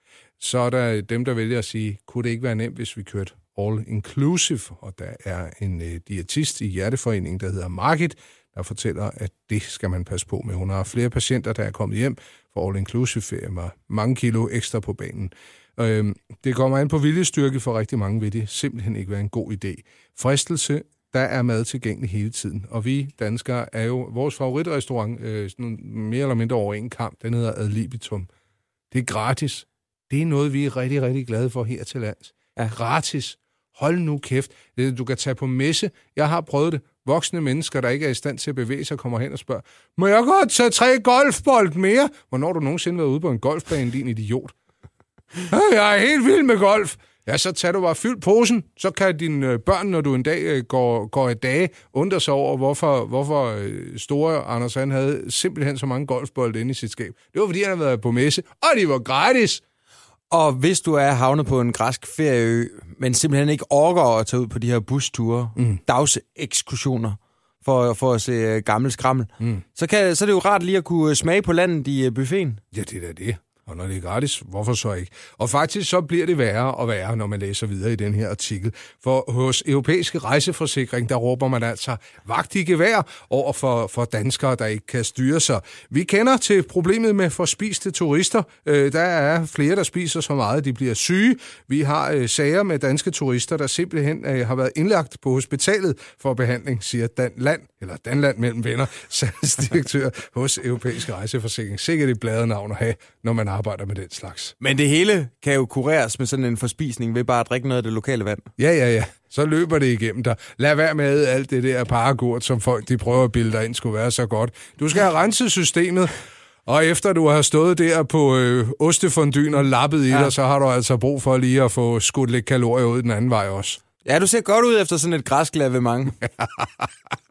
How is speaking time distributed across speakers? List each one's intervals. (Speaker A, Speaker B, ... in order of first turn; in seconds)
Speaker A: 0.4-28.3, 28.9-44.5, 45.5-59.6, 65.6-65.8, 72.7-104.5, 108.6-116.1, 116.7-123.8
Speaker B: 60.3-72.6, 104.6-108.5, 124.0-126.2